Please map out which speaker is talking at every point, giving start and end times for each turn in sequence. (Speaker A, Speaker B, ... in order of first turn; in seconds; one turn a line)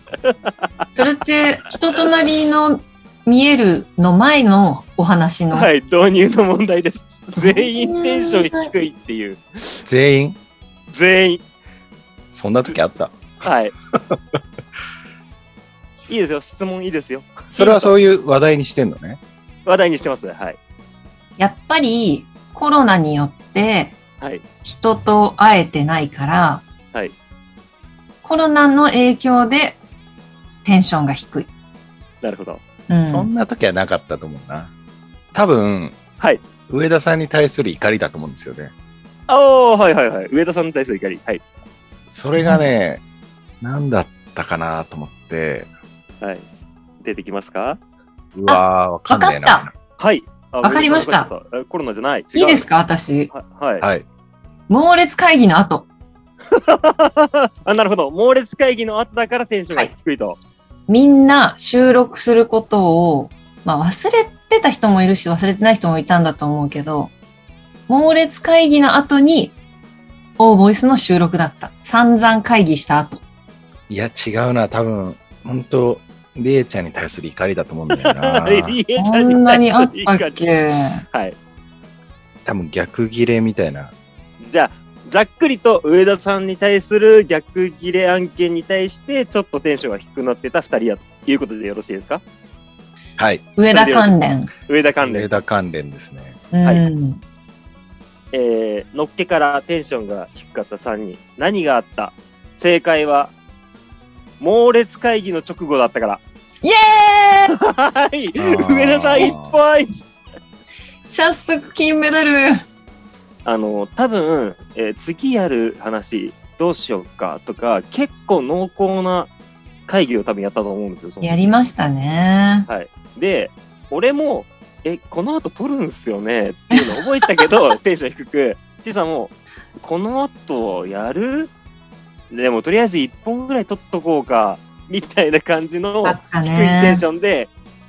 Speaker A: 0.2-0.7
Speaker B: 1.0-5.7
Speaker A: 5.5-9.8
Speaker B: 7.4-8.7
Speaker C: 9.9-10.4
Speaker A: 10.9-11.4
Speaker C: 12.3-14.2
Speaker A: 13.4-13.7
Speaker A: 16.1-17.9
Speaker C: 17.6-19.2
Speaker A: 19.7-20.6
Speaker B: 21.4-24.0
Speaker B: 24.6-26.6
Speaker B: 28.2-29.8
Speaker B: 30.6-31.5
Speaker A: 32.2-32.6
Speaker B: 32.9-33.3
Speaker C: 33.0-34.7
Speaker C: 35.3-36.0
Speaker C: 36.7-38.7
Speaker A: 39.3-41.4
Speaker C: 42.1-43.0
Speaker B: 42.4-42.7
Speaker C: 43.6-45.7
Speaker A: 47.0-47.8
Speaker C: 48.3-49.7
Speaker B: 48.5-49.7
Speaker A: 50.0-52.7
Speaker B: 50.6-51.3
Speaker B: 52.3-53.3
Speaker A: 53.3-53.9
Speaker C: 53.8-54.0
Speaker B: 54.7-55.9
Speaker A: 56.5-60.4
Speaker B: 60.9-67.1
Speaker B: 67.9-69.6
Speaker B: 70.4-73.2
Speaker C: 73.9-78.8
Speaker A: 77.9-80.4
Speaker B: 79.0-81.0
Speaker A: 81.1-81.4
Speaker C: 82.5-83.9
Speaker A: 84.4-92.2
Speaker C: 93.2-93.4
Speaker B: 93.6-94.5
Speaker A: 93.7-95.3
Speaker C: 95.0-96.4
Speaker B: 96.5-97.2
Speaker A: 98.3-103.3
Speaker A: 104.4-106.2
Speaker B: 106.6-107.6
Speaker A: 107.5-110.0
Speaker C: 108.4-109.5
Speaker B: 111.0-112.7
Speaker A: 113.5-119.3
Speaker A: 119.9-121.4
Speaker B: 121.2-122.7
Speaker A: 122.7-131.5
Speaker A: 132.3-137.5
Speaker B: 136.0-137.0